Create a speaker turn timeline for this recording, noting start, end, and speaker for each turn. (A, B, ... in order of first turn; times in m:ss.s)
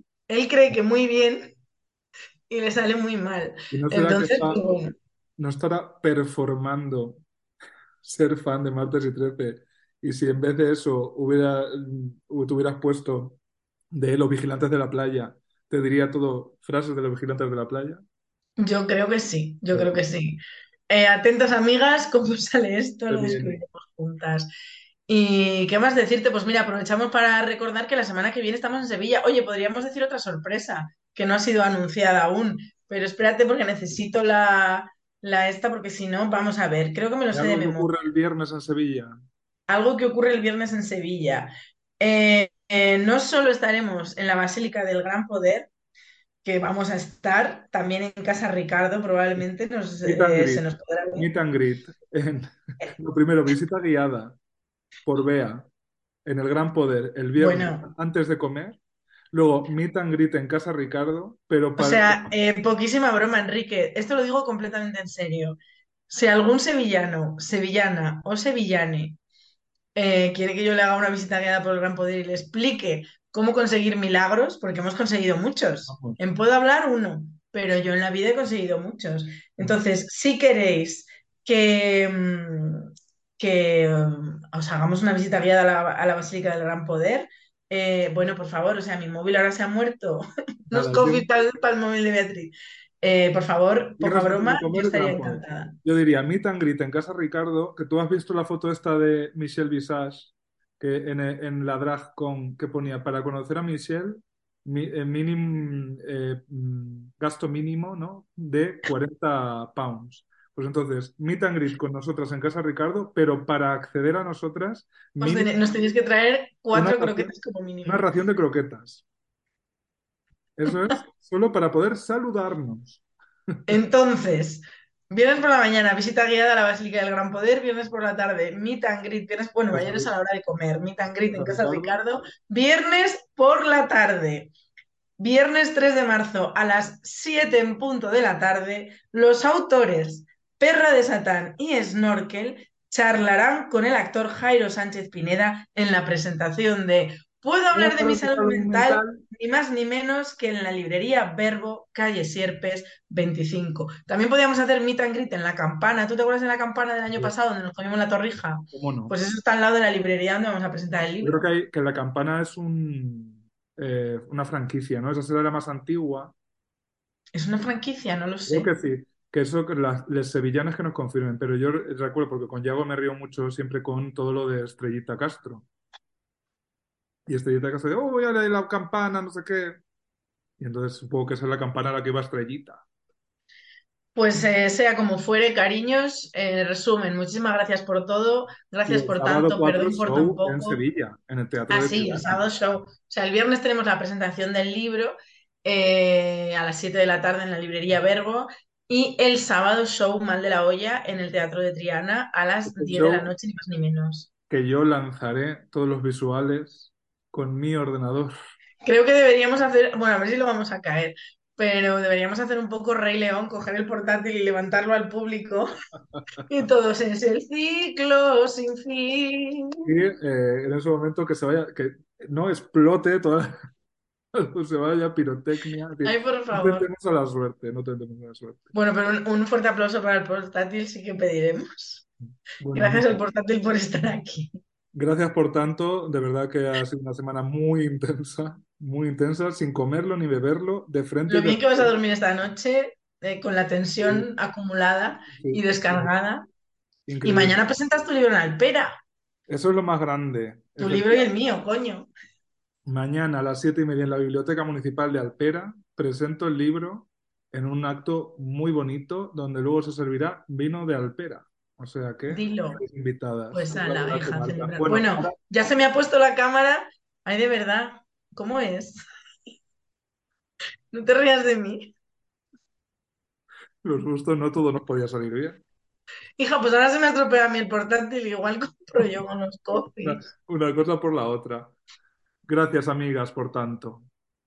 0:00.3-0:01.5 A
0:02.5-0:04.9 A
0:03.7-0:04.6 B
0:05.4-0:07.2 B
0:08.0-0:13.4 B
0:13.9-0:18.0 B
0:18.6-0:24.5 A
0:23.1-0:23.6 B
0:25.1-0:37.9 A
0:37.3-0:39.1 B
0:39.7-0:45.7 A
0:46.4-0:51.3 A
0:50.0-0:54.4 B
0:55.1-0:55.7 B
0:56.2-0:58.8 B
0:57.4-0:57.9 A
0:59.3-1:02.3 B
1:01.8-1:05.6 A
1:06.1-1:09.2 A
1:10.0-1:35.8 A
1:15.9-1:16.2 B
1:30.7-1:31.3 B
1:34.0-1:55.6 B
1:55.2-1:58.0 A
1:56.7-1:57.3 B
1:57.8-1:59.0 B
2:00.6-2:03.0 B
2:03.7-2:14.5 A
2:09.7-2:10.1 B
2:11.3-2:12.0 B
2:15.2-2:41.4 A
2:27.7-2:29.2 B
2:38.7-2:39.1 B
2:41.2-2:46.3 B
2:47.3-2:48.7 A
2:48.5-2:55.7 B
2:57.3-2:59.8 B
3:00.6-3:02.8 B
3:04.2-3:10.8 A
3:08.9-3:12.4 B
3:11.7-3:24.3 A
3:22.7-3:23.3 B
3:24.5-3:28.3 B
3:28.8-3:35.7 A
3:36.5-3:39.9 A
3:39.8-3:43.6 B
3:44.3-3:48.7 B
3:46.0-3:46.9 A
3:48.7-3:52.0 A
3:52.6-3:53.2 B
3:52.7-3:54.6 A
3:54.9-4:01.9 B
4:01.3-4:06.5 A
4:05.3-4:06.1 B
4:07.1-4:07.6 B
4:07.2-4:09.0 A
4:09.5-4:11.3 B
4:10.8-4:12.1 A
4:12.9-4:25.3 B
4:22.3-4:22.8 A
4:23.5-4:29.0 A
4:30.9-4:31.9 A
4:33.8-4:35.6 B
4:36.4-4:40.3 A
4:39.8-4:41.8 B
4:42.5-4:44.1 B